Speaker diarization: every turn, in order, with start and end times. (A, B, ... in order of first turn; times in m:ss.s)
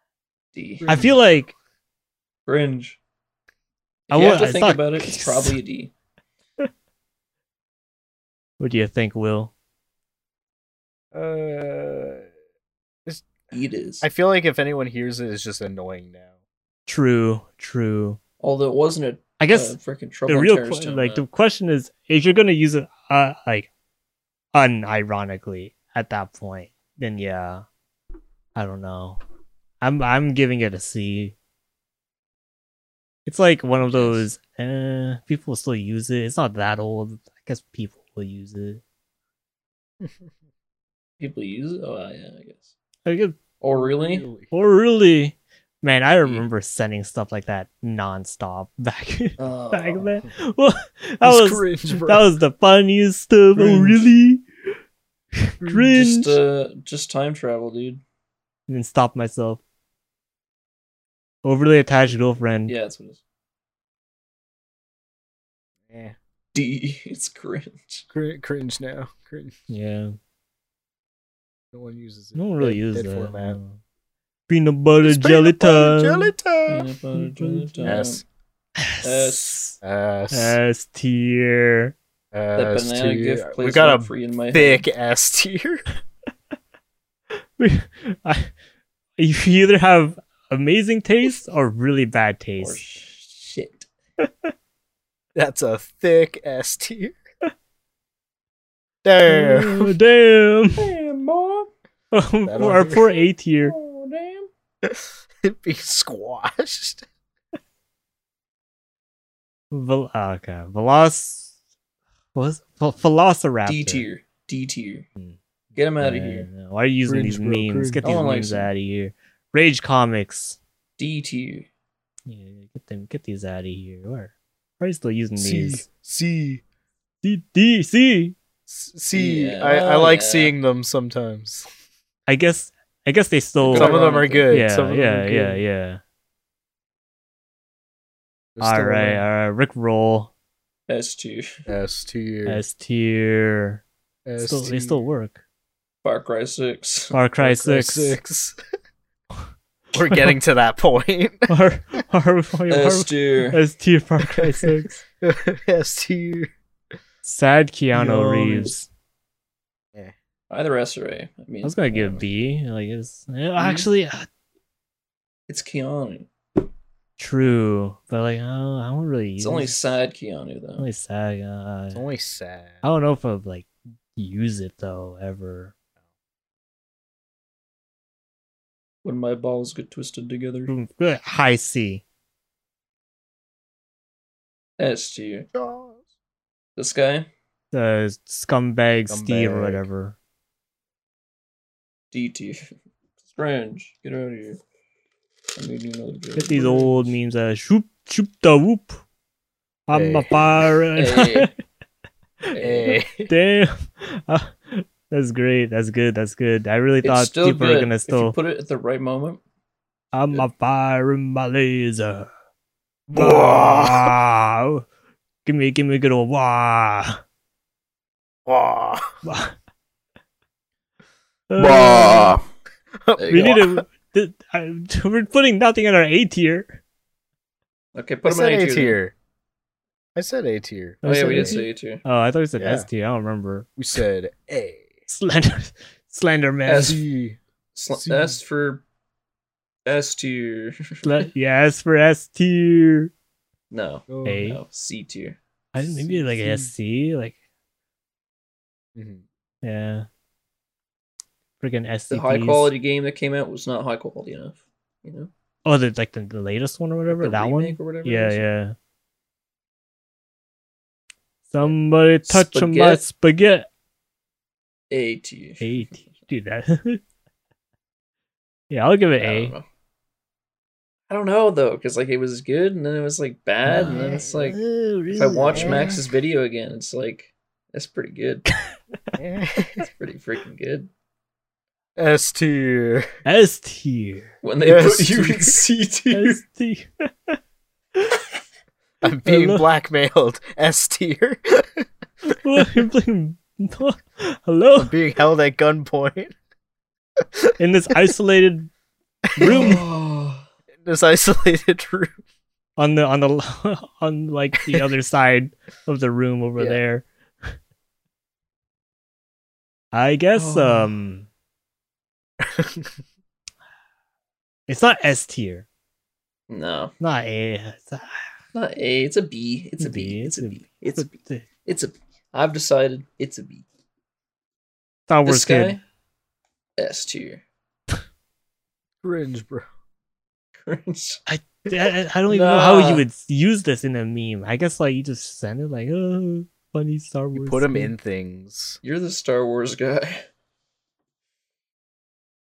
0:00.5-0:01.0 A
0:00.8-0:01.2 B
0:00.8-0:01.5 C
0:02.4-0:03.0 A
0:04.1-0:05.9 A
0:04.1-0:05.6 C
0:08.6-0:09.5 C
0:11.1-0:12.2 B
0:13.5-0:14.0 A
0:14.0-0:16.3 B
0:16.9-0:18.2 C
0:18.4-0:21.2 A
0:19.4-0:19.8 C
0:20.3-0:23.7 C
0:24.5-0:27.6 C
0:28.5-0:29.2 C
0:29.8-0:31.3 C
0:33.2-0:38.8 C
0:33.8-0:34.2 A
0:41.2-0:42.7 A
0:43.0-0:43.4 C
0:43.6-0:44.2 A
0:43.7-0:44.5 B
0:44.5-0:54.4 C
0:49.4-0:50.1 A
0:51.2-0:52.3 B
0:53.6-0:54.1 B
0:55.3-0:56.4 C
0:55.6-0:55.9 B
0:55.9-0:58.0 A
0:58.7-0:59.6 C
1:01.4-1:02.7 C
1:02.6-1:03.2 A
1:05.9-1:06.2 B
1:06.5-1:08.0 A
1:08.1-1:09.5 B
1:09.7-1:10.1 C
1:11.7-1:13.6 B
1:12.4-1:13.8 C
1:14.5-1:16.3 C
1:15.0-1:16.9 B
1:16.7-1:18.2 A
1:17.2-1:18.0 C
1:17.8-1:18.2 B
1:18.8-1:19.8 C
1:19.0-1:19.6 A
1:19.8-1:20.6 B
1:20.3-1:21.9 C
1:22.3-1:25.8 B
1:22.5-1:24.9 A
1:27.6-1:28.5 C
1:29.2-1:32.8 C
1:32.6-1:33.9 A
1:34.2-1:34.5 C
1:35.3-1:37.2 B
1:39.0-1:39.9 B
1:39.3-1:40.9 C
1:40.8-1:41.7 A
1:42.1-1:43.8 C
1:42.4-1:43.0 B
1:43.6-1:44.5 A
1:44.8-1:47.0 B
1:49.7-1:51.5 C
1:52.3-1:54.1 C
1:53.6-1:55.0 A
1:55.7-1:56.5 A
1:56.0-2:00.6 C
1:57.0-1:58.1 B
1:58.0-1:58.7 A
2:01.0-2:01.7 A
2:02.2-2:05.8 C
2:05.4-2:06.6 B
2:07.2-2:08.4 C
2:08.7-2:11.7 B
2:09.1-2:10.5 A
2:12.3-2:14.0 C
2:13.6-2:14.5 A
2:13.7-2:15.6 B
2:14.5-2:16.0 C
2:18.6-2:19.2 B
2:18.6-2:20.3 C
2:20.9-2:21.5 A
2:21.7-2:22.6 B
2:22.5-2:23.8 C
2:24.2-2:25.0 B
2:24.4-2:25.4 C
2:26.0-2:27.1 A
2:27.1-2:28.2 C
2:27.4-2:28.6 B
2:29.9-2:31.5 B
2:31.5-2:35.0 C
2:32.7-2:33.6 A
2:34.3-2:36.5 B
2:37.2-2:38.9 C
2:37.9-2:38.7 A
2:40.5-2:42.2 A
2:41.6-2:44.3 C
2:43.6-2:43.9 A
2:45.5-2:46.3 A
2:47.2-2:49.8 C
2:49.4-2:50.8 A
2:50.8-2:52.0 C
2:51.9-2:52.8 B
2:52.8-2:55.7 C
2:59.0-3:00.7 A
3:00.7-3:02.0 C
3:04.8-3:05.5 A
3:05.5-3:06.0 B
3:06.8-3:07.3 A
3:07.7-3:10.2 C
3:09.1-3:09.8 B
3:12.1-3:12.7 A
3:13.3-3:14.6 A
3:15.6-3:17.2 A
3:16.4-3:19.0 C
3:19.9-3:21.5 C
3:19.9-3:20.7 B
3:21.0-3:21.5 A
3:22.5-3:23.0 A
3:22.6-3:23.3 B
3:23.3-3:28.3 C
3:27.0-3:29.4 A
3:30.1-3:32.3 C
3:33.1-3:34.1 B
3:33.1-3:34.8 C
3:35.4-3:37.2 C
3:38.4-3:39.2 B
3:39.2-3:39.5 C
3:41.5-3:42.4 C
3:41.6-3:42.4 A
3:43.0-3:43.8 B
3:43.2-3:43.6 A
3:43.3-3:46.8 C
3:47.9-3:49.0 A
3:48.2-3:49.1 B
3:50.2-3:51.6 B
3:51.0-3:53.7 C
3:51.0-3:52.0 A
3:52.6-3:52.9 B
3:53.8-3:55.0 B
3:55.1-3:57.0 C
3:56.6-3:57.0 A
3:56.8-3:57.4 B
3:57.7-3:58.8 A
3:57.9-3:58.4 B
3:59.8-4:01.2 A
4:01.0-4:03.1 C
4:03.7-4:05.4 A
4:04.1-4:04.5 B
4:04.2-4:04.6 C
4:05.7-4:07.3 C
4:05.8-4:06.7 B
4:08.9-4:09.2 B
4:09.6-4:10.1 C
4:11.6-4:12.7 C
4:12.1-4:15.3 A
4:15.6-4:18.8 C
4:17.1-4:18.4 A
4:21.5-4:23.7 C
4:22.2-4:23.0 A
4:24.9-4:25.9 A
4:25.6-4:27.0 C
4:28.7-4:29.5 C
4:29.2-4:29.6 A
4:31.1-4:34.6 A
4:33.7-4:35.9 C
4:33.8-4:34.3 B
4:35.1-4:38.5 A
4:35.5-4:36.0 B
4:39.2-4:39.9 B
4:39.8-4:40.9 A
4:42.0-4:43.1 B
4:43.2-4:44.3 C
4:44.4-4:46.4 A
4:44.6-4:45.7 B
4:46.1-4:47.4 C
4:49.0-4:51.8 B
4:49.2-4:49.6 C
4:52.3-4:54.9 C
4:52.6-4:52.8 B
4:54.8-4:56.3 B
4:57.2-4:57.5 B
4:57.6-4:58.7 C
4:59.3-4:59.8 B
4:59.4-4:59.8 C
4:59.4-5:00.5 A
5:00.8-5:02.2 B
5:02.8-5:07.0 C
5:09.9-5:11.3 C
5:10.3-5:10.9 A
5:12.4-5:13.0 B
5:14.7-5:15.6 C
5:16.5-5:16.9 A
5:17.0-5:18.3 C
5:18.5-5:23.6 A
5:19.8-5:21.4 C
5:25.1-5:25.8 C
5:25.2-5:25.8 A
5:26.8-5:27.4 A
5:29.0-5:29.7 B
5:30.6-5:31.2 A
5:31.3-5:37.9 C
5:32.3-5:33.0 A
5:37.3-5:38.8 B
5:38.8-5:40.3 A